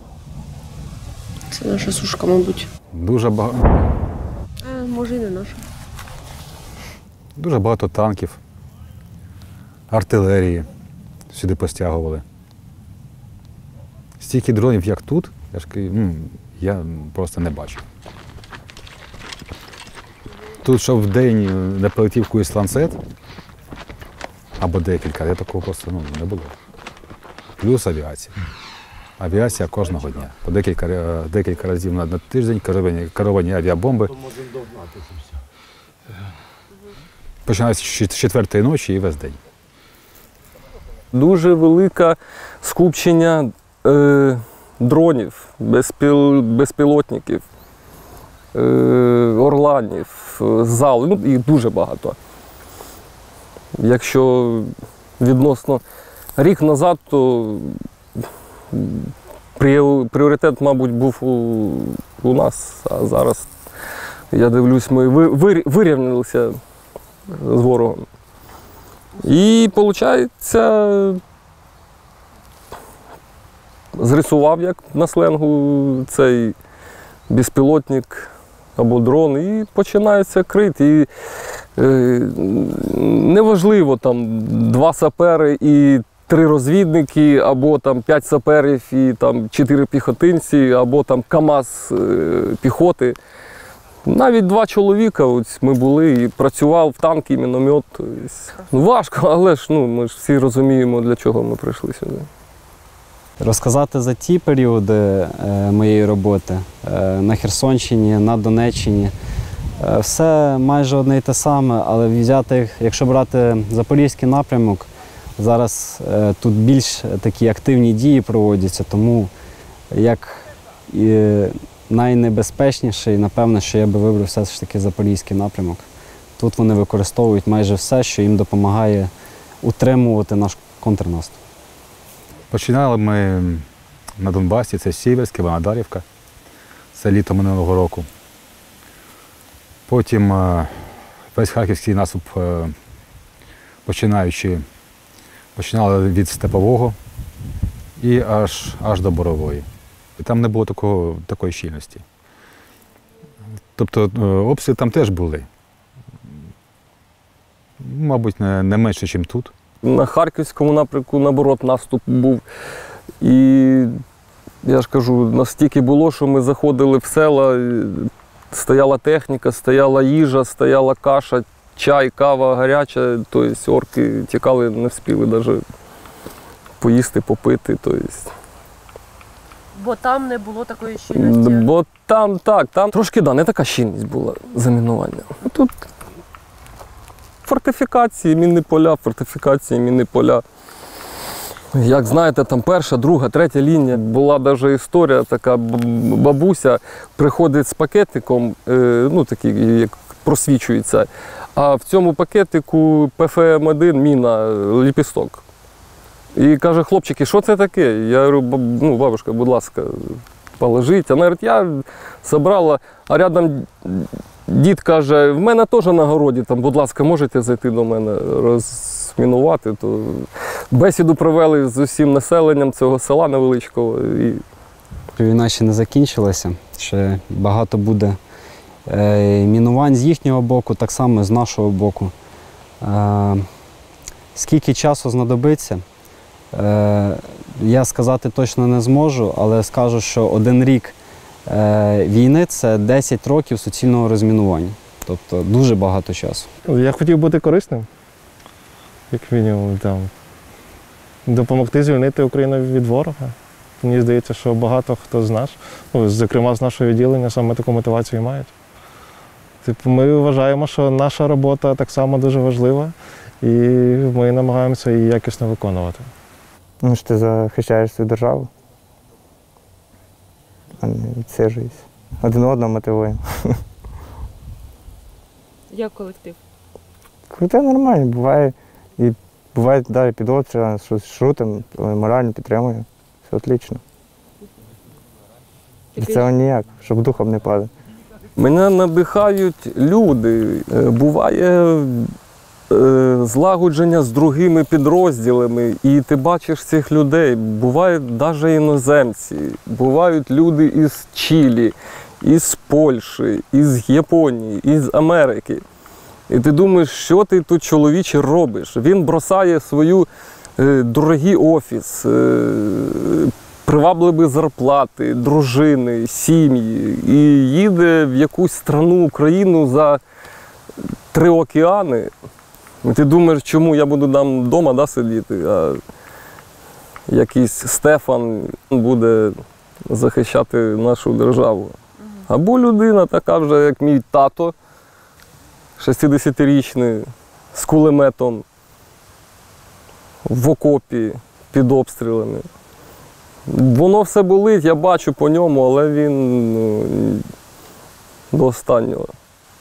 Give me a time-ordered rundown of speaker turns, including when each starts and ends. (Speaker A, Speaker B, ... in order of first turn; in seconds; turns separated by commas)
Speaker A: 1.5-2.7, Speaker B: 2.9-3.9, Speaker A: 4.6-5.6, Speaker B: 7.3-8.4, Speaker B: 9.9-10.7, Speaker B: 11.3-12.2, Speaker B: 14.2-17.8, Speaker B: 20.6-23.0, Speaker B: 24.6-26.5, Speaker B: 27.6-28.4, Speaker B: 29.2-34.3, Speaker B: 37.5-39.4, Speaker C: 41.1-47.4, Speaker C: 48.5-52.2, Speaker C: 53.8-55.8, Speaker C: 56.4-63.5, Speaker C: 64.3-66.6, Speaker C: 67.3-68.1, Speaker C: 69.2-71.2, Speaker C: 73.9-76.5, Speaker C: 77.3-81.1, Speaker C: 81.8-93.2, Speaker C: 94.0-102.3, Speaker D: 103.4-109.1, Speaker D: 109.8-119.3, Speaker D: 119.9-125.8, Speaker D: 126.4-129.1, Speaker D: 129.6-131.4, Speaker B: 132.5-133.7, Speaker B: 134.2-136.0, Speaker B: 136.9-138.1, Speaker B: 139.9-142.7, Speaker B: 143.8-144.6, Speaker B: 145.6-146.9, Speaker B: 148.0-149.7, Speaker B: 150.2-152.0, Speaker B: 153.8-155.5, Speaker B: 157.8-159.5, Speaker C: 159.8-162.4, Speaker C: 163.2-164.0, Speaker C: 164.6-175.6, Speaker C: 176.8-178.3, Speaker A: 179.7-181.7, Speaker C: 181.1-185.7, Speaker C: 187.4-190.4, Speaker C: 191.7-205.4, Speaker C: 206.3-224.4, Speaker D: 225.2-228.2, Speaker D: 228.9-232.1, Speaker D: 232.8-233.5, Speaker D: 234.3-235.8, Speaker D: 236.5-240.9, Speaker D: 241.5-246.5, Speaker E: 246.7-247.9, Speaker E: 249.1-250.1, Speaker E: 251.2-258.5, Speaker E: 259.6-266.1, Speaker F: 266.8-268.5, Speaker F: 270.8-273.6, Speaker A: 275.7-276.4, Speaker F: 277.3-283.8, Speaker A: 285.9-286.3, Speaker F: 285.9-287.7, Speaker C: 288.4-292.1, Speaker C: 292.7-305.6, Speaker C: 306.3-320.0, Speaker C: 321.1-322.1, Speaker C: 322.8-325.8, Speaker C: 327.1-334.5, Speaker C: 335.8-338.4, Speaker C: 340.2-342.5, Speaker C: 343.5-347.3, Speaker C: 348.3-349.1